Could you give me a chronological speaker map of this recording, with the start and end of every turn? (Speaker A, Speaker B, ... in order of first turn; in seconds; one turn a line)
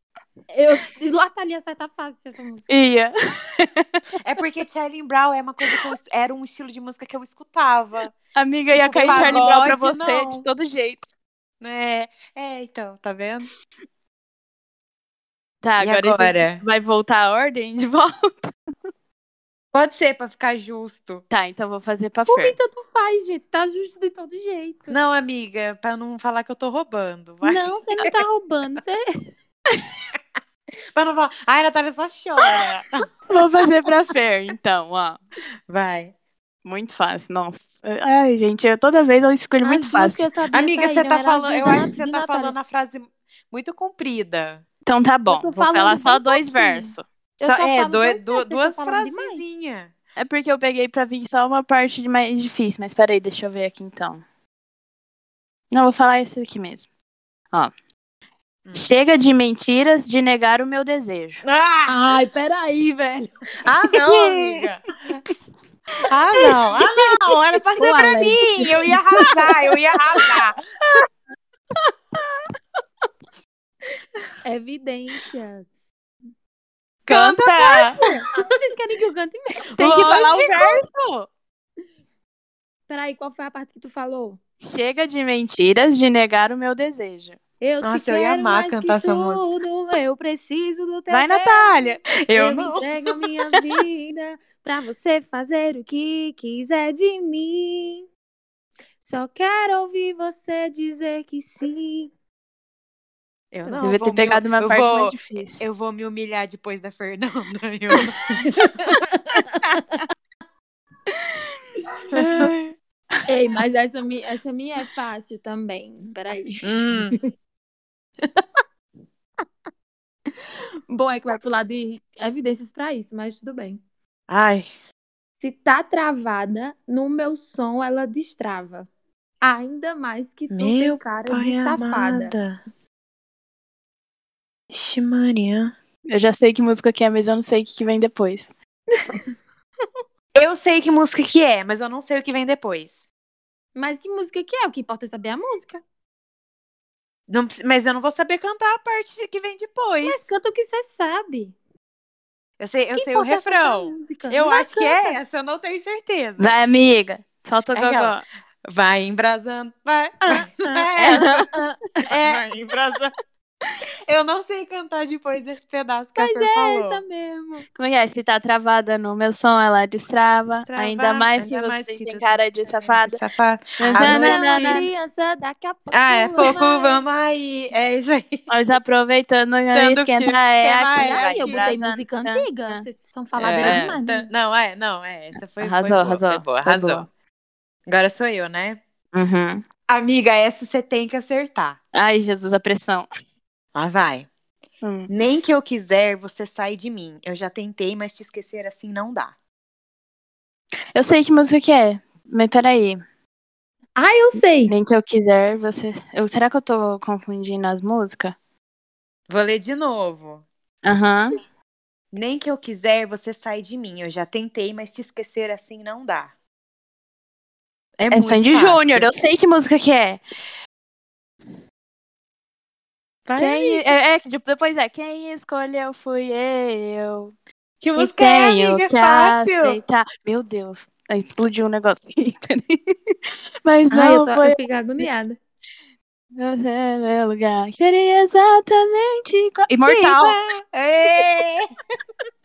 Speaker A: 0.5-2.7
Speaker B: 2.7-4.0
Speaker C: 4.2-8.1
Speaker B: 8.3-11.1
Speaker A: 8.7-9.5
Speaker C: 8.7-10.4
Speaker C: 11.6-13.5
Speaker B: 15.6-18.5
Speaker C: 15.8-16.6
Speaker C: 19.7-21.2
Speaker B: 21.3-22.6
Speaker A: 22.3-25.0
Speaker C: 24.9-28.1
Speaker A: 27.4-29.0
Speaker C: 30.9-33.1
Speaker B: 33.3-35.2
Speaker C: 35.7-36.1
Speaker B: 36.6-40.3
Speaker A: 39.6-42.5
Speaker C: 40.5-44.6
Speaker B: 44.9-47.0
Speaker A: 45.3-49.4
Speaker C: 47.4-49.9
Speaker B: 50.2-54.2
Speaker B: 55.7-56.9
Speaker C: 58.6-58.9
Speaker B: 58.7-61.4
Speaker C: 61.4-62.0
Speaker A: 61.9-63.3
Speaker C: 63.6-64.8
Speaker B: 64.1-64.7
Speaker C: 66.1-70.5
Speaker A: 67.8-69.0
Speaker A: 74.5-75.7
Speaker C: 77.1-78.2
Speaker B: 77.1-78.0
Speaker A: 78.0-80.6
Speaker B: 79.8-81.3
Speaker C: 79.8-80.8
Speaker A: 82.9-84.4
Speaker B: 84.6-87.4
Speaker A: 87.6-98.1
Speaker C: 87.8-89.4
Speaker B: 91.1-92.0
Speaker C: 92.3-92.9
Speaker A: 99.0-102.1
Speaker C: 103.5-108.5
Speaker B: 103.8-105.7
Speaker A: 108.4-110.0
Speaker B: 112.1-112.5
Speaker C: 112.1-112.7
Speaker A: 113.3-117.2
Speaker C: 116.6-117.2
Speaker A: 120.9-123.8
Speaker C: 124.3-124.7
Speaker A: 125.4-128.9
Speaker A: 129.4-132.3
Speaker C: 130.5-132.6
Speaker C: 134.7-135.7
Speaker B: 136.1-138.5
Speaker C: 140.3-143.1
Speaker A: 143.8-145.8
Speaker C: 147.3-150.2
Speaker A: 150.0-151.6
Speaker C: 152.6-156.6
Speaker A: 152.9-155.2
Speaker B: 156.4-158.2
Speaker C: 157.7-158.2
Speaker C: 158.7-161.5
Speaker A: 160.2-162.1
Speaker B: 161.0-161.5
Speaker C: 162.1-163.1
Speaker C: 164.1-167.0
Speaker A: 166.2-167.7
Speaker B: 167.8-173.2
Speaker C: 170.7-174.9
Speaker B: 173.8-174.9
Speaker A: 173.9-177.0
Speaker C: 175.9-178.4
Speaker B: 178.5-182.8
Speaker C: 179.7-181.7
Speaker A: 180.7-184.3
Speaker B: 183.4-183.9
Speaker C: 183.6-187.1
Speaker B: 185.6-187.1
Speaker C: 187.9-188.8
Speaker B: 189.1-189.6
Speaker C: 189.9-191.8
Speaker B: 191.9-193.1
Speaker C: 193.7-194.3
Speaker B: 194.8-195.1
Speaker C: 195.1-199.3
Speaker B: 200.9-203.0
Speaker A: 204.0-204.7
Speaker B: 204.7-208.3
Speaker C: 209.3-210.4
Speaker B: 210.8-211.3
Speaker C: 212.1-216.3
Speaker C: 218.0-219.1
Speaker B: 218.1-220.2
Speaker C: 223.3-223.9
Speaker B: 223.4-227.3
Speaker C: 227.8-229.8
Speaker B: 228.0-234.6
Speaker A: 233.9-235.4
Speaker B: 236.4-240.4
Speaker C: 239.8-241.7